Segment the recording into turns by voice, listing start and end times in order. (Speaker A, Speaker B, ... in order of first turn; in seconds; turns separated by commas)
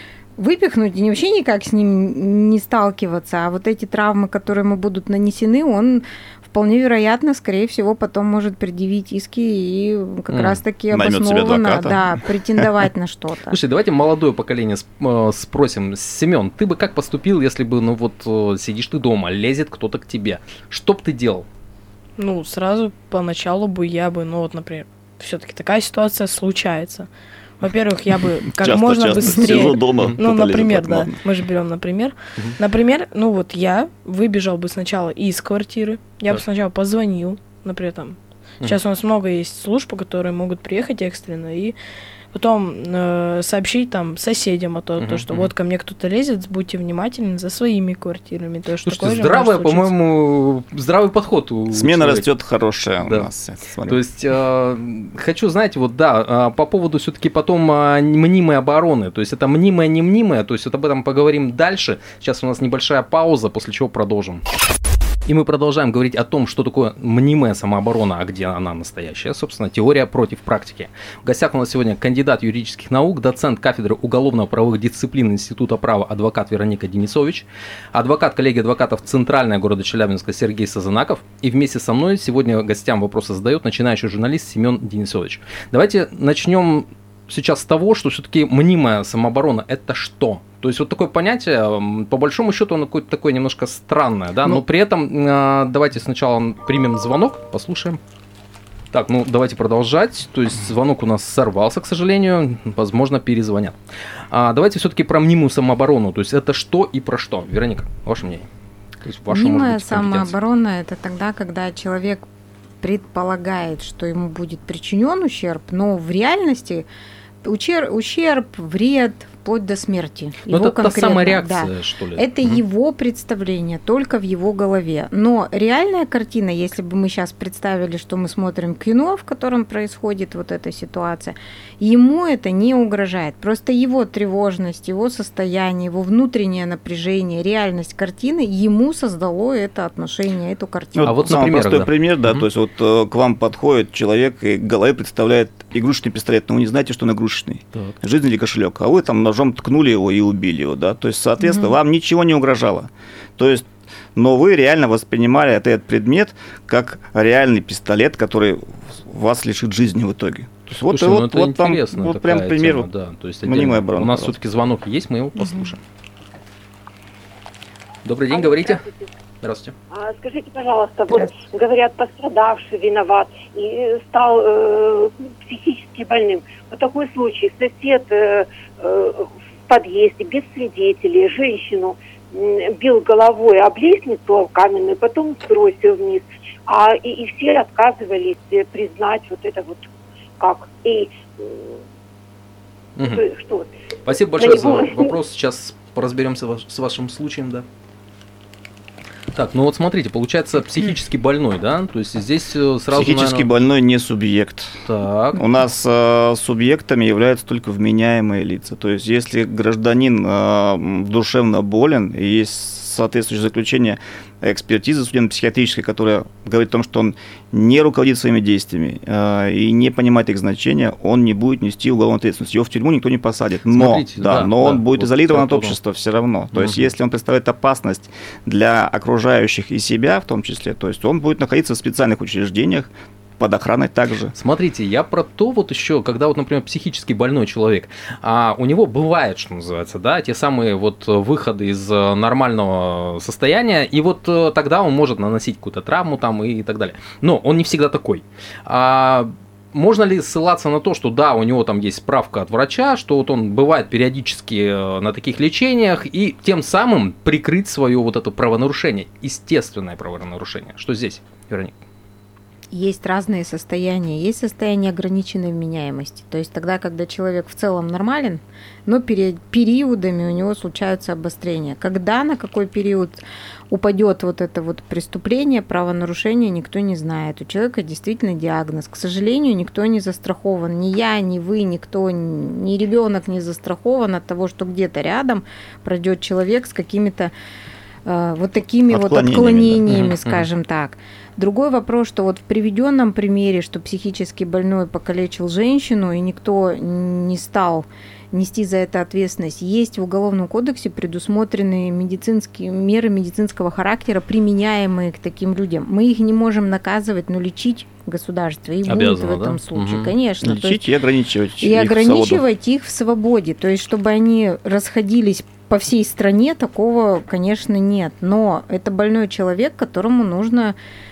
Speaker A: 0.4-13.6, Speaker B: 10.3-10.6, Speaker C: 10.9-12.7, Speaker B: 13.5-21.4, Speaker D: 22.2-27.1, Speaker D: 27.6-41.8, Speaker C: 28.6-31.2, Speaker D: 42.3-49.9, Speaker B: 45.0-45.5, Speaker B: 48.9-52.2, Speaker C: 51.7-54.0, Speaker B: 53.8-64.4, Speaker B: 65.2-98.0, Speaker B: 98.9-103.8, Speaker B: 104.3-108.5, Speaker B: 109.0-110.3, Speaker A: 109.3-112.2, Speaker A: 112.8-116.9, Speaker A: 117.4-141.2, Speaker B: 120.5-122.6, Speaker C: 140.9-162.9, Speaker B: 141.1-142.4, Speaker A: 151.4-151.7, Speaker B: 160.9-165.8, Speaker C: 163.4-164.4, Speaker A: 165.4-165.7, Speaker B: 168.1-168.8, Speaker E: 168.3-169.1, Speaker B: 169.4-169.7, Speaker E: 169.9-191.8, Speaker B: 193.0-193.2, Speaker E: 193.0-193.7, Speaker B: 194.1-197.7, Speaker E: 194.3-195.2, Speaker B: 199.3-203.5, Speaker C: 202.9-204.8, Speaker B: 204.9-205.4, Speaker C: 205.3-234.3, Speaker B: 223.7-225.8, Speaker B: 226.5-226.9, Speaker B: 234.3-261.8, Speaker A: 262.7-287.3, Speaker A: 288.1-310.8, Speaker C: 288.9-289.9, Speaker B: 289.9-290.5, Speaker B: 308.9-310.1, Speaker C: 310.4-312.4, Speaker A: 311.6-320.7